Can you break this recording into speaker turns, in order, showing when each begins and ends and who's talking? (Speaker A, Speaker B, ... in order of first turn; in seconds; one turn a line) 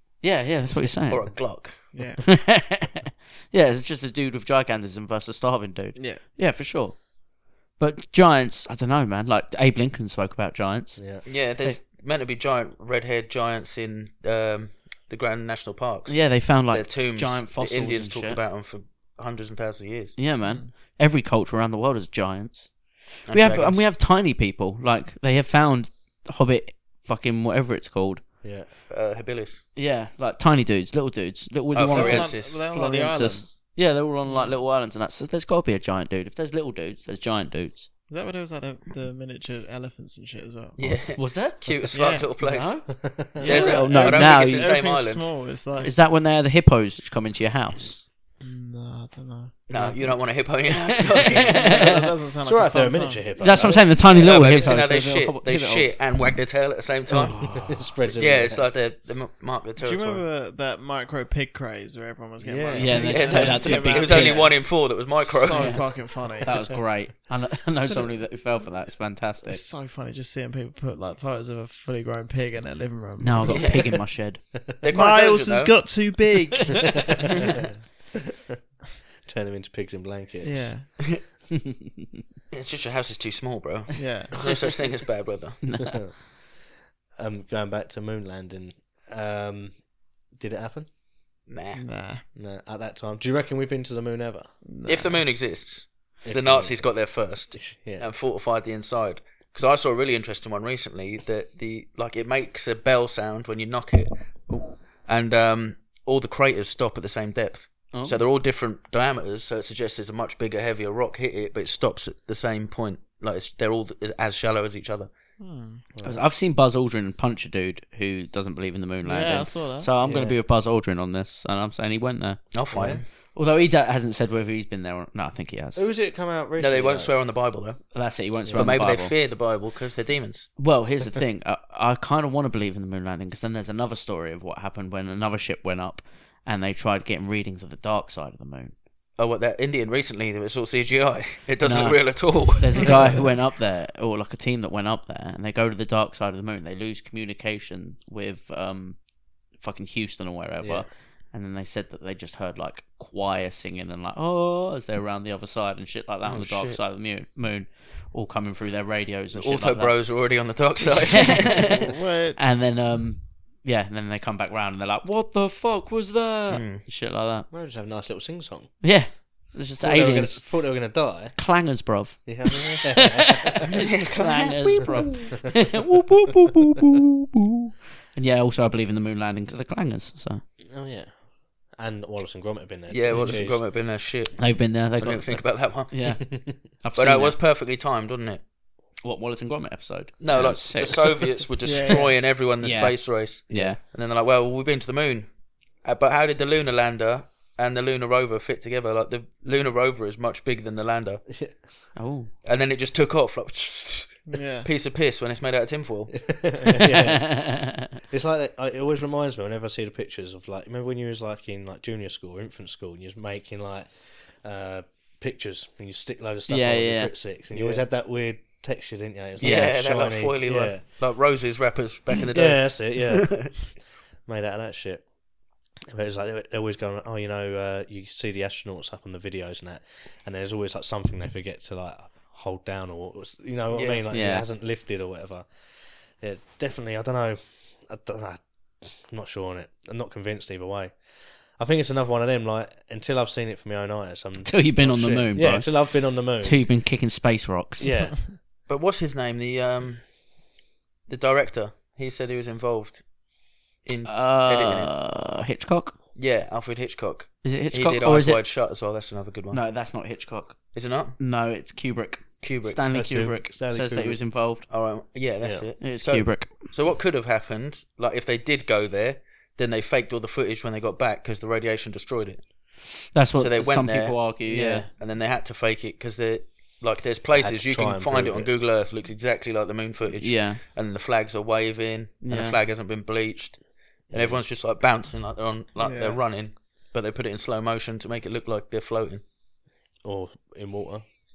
Speaker A: 0.2-7.2
Speaker B: 0.7-1.9
Speaker C: 1.9-2.3
Speaker C: 5.9-6.2
Speaker A: 7.7-11.8
Speaker D: 11.0-11.2
Speaker B: 11.2-20.2
Speaker A: 16.1-18.4
Speaker A: 20.2-28.2
Speaker C: 20.4-20.7
Speaker B: 23.3-23.9
Speaker D: 28.4-28.7
Speaker B: 28.9-29.6
Speaker A: 29.7-37.9
Speaker B: 31.7-32.6
Speaker C: 31.9-33.7
Speaker C: 34.2-34.6
Speaker C: 38.1-40.8
Speaker B: 40.8-45.4
Speaker A: 41.1-44.7
Speaker C: 41.9-42.3
Speaker D: 42.9-43.6
Speaker C: 43.4-45.9
Speaker A: 45.8-48.0
Speaker C: 48.4-50.2
Speaker B: 49.7-51.9
Speaker A: 51.0-52.1
Speaker C: 51.4-53.6
Speaker D: 52.4-54.0
Speaker A: 53.4-56.0
Speaker B: 54.1-57.5
Speaker D: 57.1-58.6
Speaker A: 57.2-57.8
Speaker B: 58.1-60.2
Speaker C: 59.8-66.8
Speaker D: 62.4-63.4
Speaker A: 62.8-64.6
Speaker B: 63.0-66.0
Speaker A: 65.5-69.6
Speaker C: 69.5-73.9
Speaker A: 73.2-74.4
Speaker B: 73.5-73.9
Speaker B: 74.8-75.9
Speaker C: 74.9-77.3
Speaker D: 79.2-80.9
Speaker C: 80.4-81.0
Speaker B: 82.5-85.6
Speaker C: 83.9-84.4
Speaker A: 85.6-86.0
Speaker D: 85.9-86.3
Speaker D: 87.1-90.9
Speaker B: 91.5-91.8
Speaker C: 91.7-92.2
Speaker D: 92.3-94.5
Speaker C: 94.6-95.2
Speaker B: 94.8-115.1
Speaker D: 96.2-97.0
Speaker D: 97.5-98.1
Speaker A: 107.9-108.2
Speaker C: 115.4-115.8
Speaker D: 115.9-116.2
Speaker A: 116.0-122.5
Speaker C: 119.0-119.9
Speaker D: 120.0-120.4
Speaker B: 122.5-123.0
Speaker D: 122.7-123.0
Speaker A: 123.3-125.8
Speaker D: 125.7-127.1
Speaker B: 126.6-130.5
Speaker A: 127.9-129.1
Speaker D: 128.4-128.8
Speaker A: 130.6-138.7
Speaker B: 139.2-143.0
Speaker A: 141.6-160.0
Speaker D: 150.6-150.9
Speaker B: 156.2-156.8
Speaker B: 159.3-161.9
Speaker A: 160.9-167.5
Speaker C: 161.6-162.4
Speaker B: 166.5-166.8
Speaker D: 167.5-169.2
Speaker A: 168.8-170.7
Speaker D: 169.8-171.4
Speaker A: 171.3-180.4
Speaker D: 172.2-173.7
Speaker B: 173.9-174.9
Speaker D: 180.7-183.6
Speaker B: 182.9-185.9
Speaker A: 184.4-187.4
Speaker B: 186.9-188.4
Speaker A: 189.0-191.4
Speaker B: 190.2-195.3
Speaker C: 191.6-192.1
Speaker A: 192.6-193.8
Speaker D: 193.5-193.8
Speaker B: 195.8-201.2
Speaker D: 201.3-201.7
Speaker A: 201.9-202.3
Speaker B: 202.4-206.5
Speaker C: 204.3-204.7
Speaker D: 206.2-220.8
Speaker A: 206.8-207.9
Speaker A: 216.5-217.2
Speaker B: 217.5-217.8
Speaker A: 219.4-219.7
Speaker B: 219.4-223.5
Speaker D: 222.3-225.1
Speaker D: 225.9-246.7
Speaker B: 233.7-234.0
Speaker A: 234.1-234.4
Speaker A: 244.4-248.0
Speaker D: 247.8-248.4
Speaker B: 248.7-250.0
Speaker B: 251.1-253.0
Speaker B: 253.8-254.9
Speaker A: 254.1-256.0
Speaker B: 256.1-259.6
Speaker A: 257.4-258.4
Speaker A: 259.5-260.6
Speaker B: 260.7-261.2
Speaker A: 261.2-264.6
Speaker B: 262.4-262.8
Speaker D: 262.9-264.2
Speaker B: 264.7-272.4
Speaker A: 265.8-266.5
Speaker A: 273.1-274.9
Speaker B: 273.4-289.2
Speaker D: 277.3-278.5
Speaker A: 280.2-280.6
Speaker A: 282.2-282.6
Speaker D: 284.1-284.4
Speaker C: 285.8-286.2
Speaker D: 290.0-291.0